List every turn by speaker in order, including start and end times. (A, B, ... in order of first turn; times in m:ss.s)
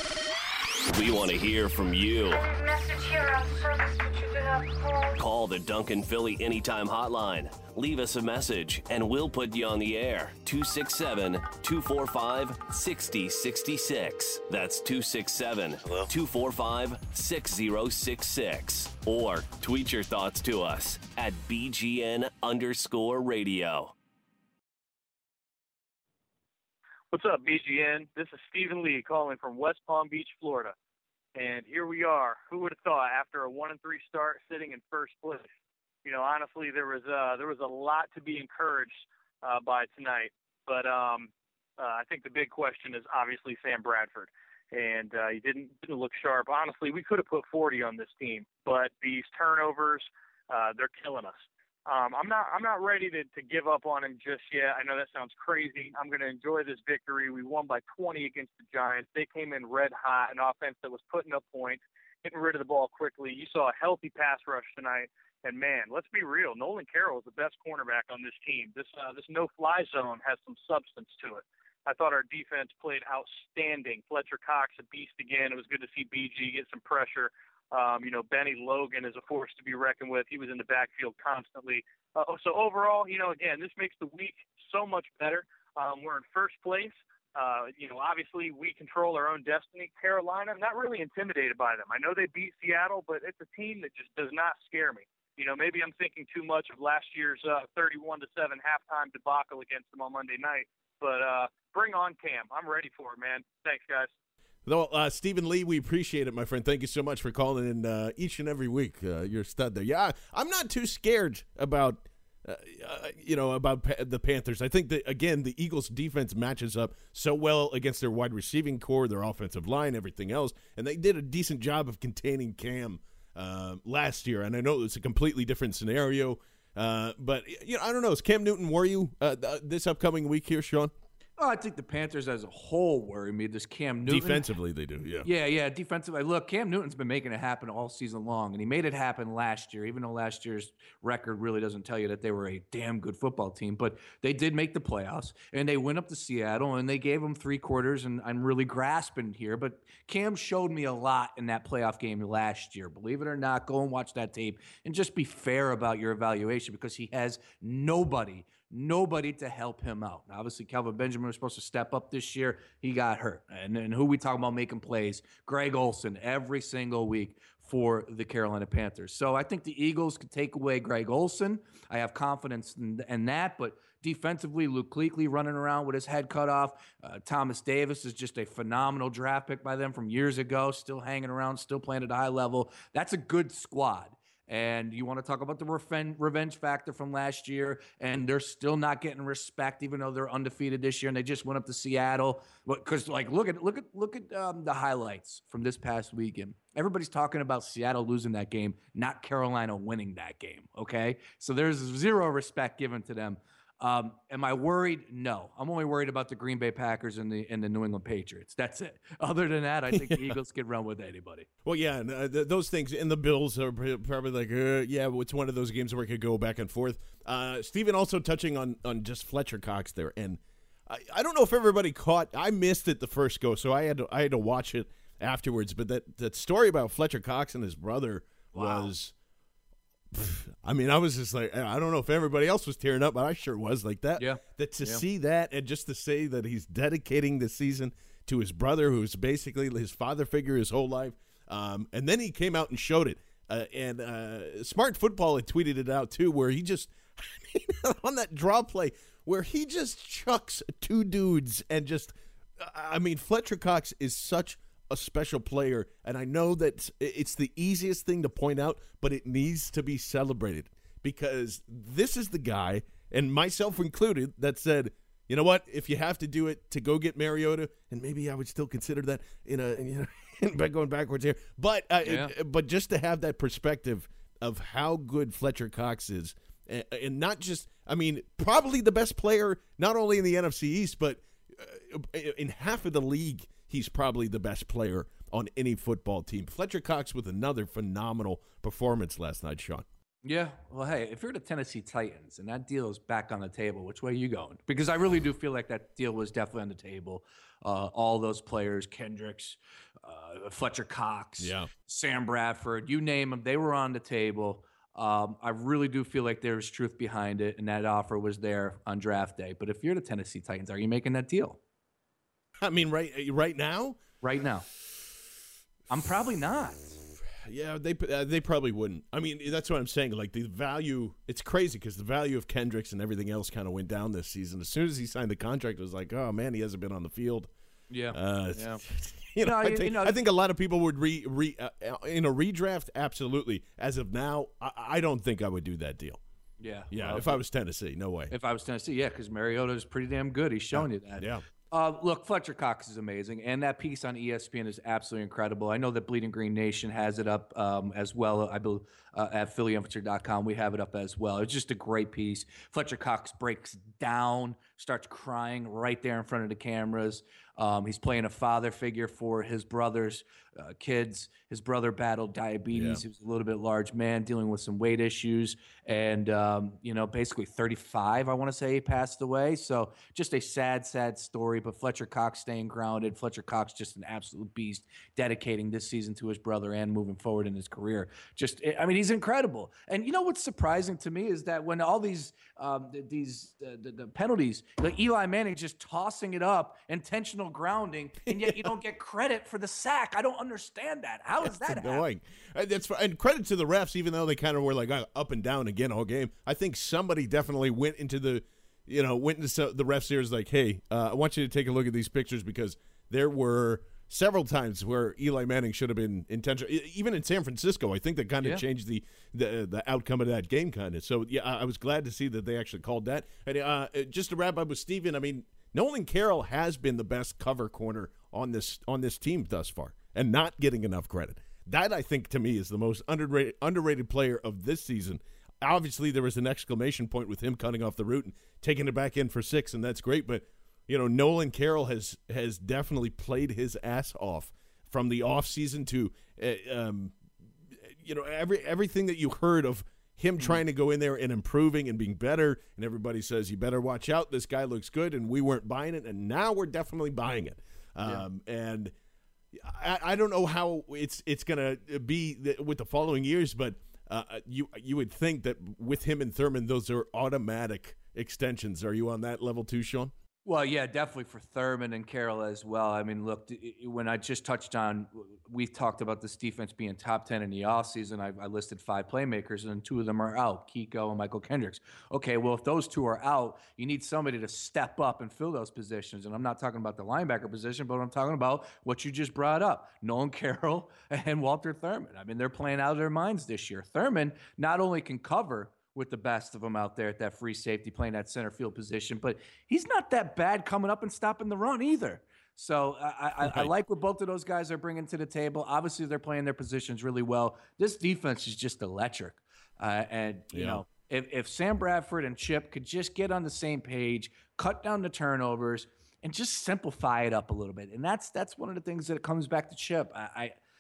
0:00.9-0:02.4 A
0:02.3-0:05.2 B
0:05.2-0:23.9 A
0:27.1-0:30.7 C
0:31.4-0:35.5 C
0:36.0-0:51.4 C
0:51.9-1:44.1 C
1:44.6-2:10.9 D
2:11.4-2:14.4 E
2:14.1-2:15.3 D
2:15.2-3:31.5 E
3:29.9-3:30.4 D
3:31.6-3:49.1 D
3:48.5-3:48.9 E
3:50.1-4:49.8 D
3:54.2-3:55.0 E
4:32.0-4:32.3 E
4:50.2-5:11.6 E
5:01.4-5:01.7 D
5:12.6-5:14.0 D
5:14.2-5:14.6 E
5:15.9-5:16.8 E
5:17.4-5:27.5 D
5:27.9-5:28.8 E
5:28.1-5:36.2 D
5:29.4-5:30.1 E
5:36.6-5:37.4 E
5:36.9-5:38.3 D
5:38.3-6:32.0 E
5:40.7-5:41.4 D
6:02.7-6:03.0 D
6:28.3-6:28.7 D
6:31.4-7:17.1 D
7:17.9-7:28.9 D
7:29.6-7:40.1 D
7:40.4-8:30.6 E
8:13.4-8:13.7 D
8:20.5-8:20.8 D